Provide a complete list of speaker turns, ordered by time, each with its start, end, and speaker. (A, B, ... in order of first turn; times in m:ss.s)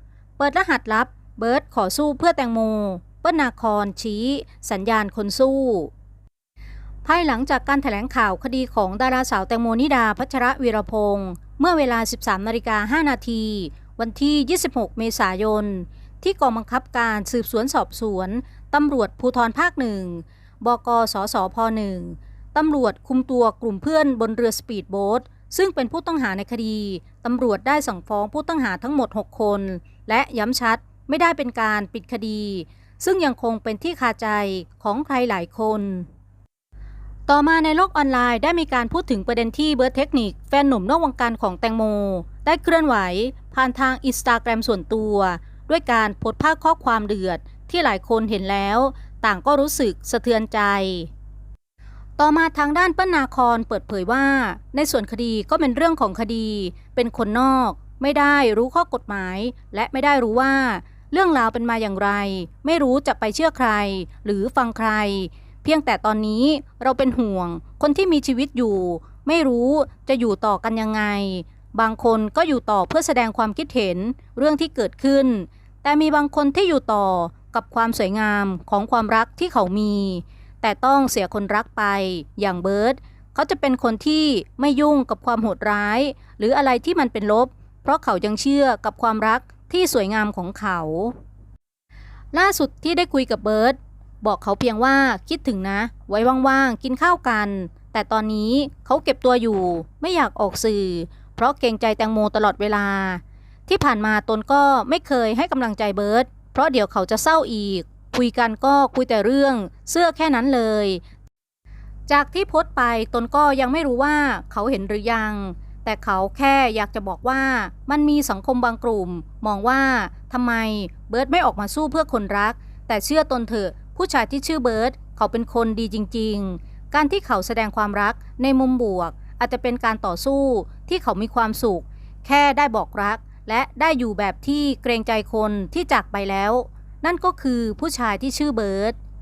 0:00.4-0:05.9 A
0:07.0-0:36.1 A
0:37.3-0:51.1 A
0:52.2-1:31.1 A
1:32.3-1:51.0 A
1:52.1-2:19.0 A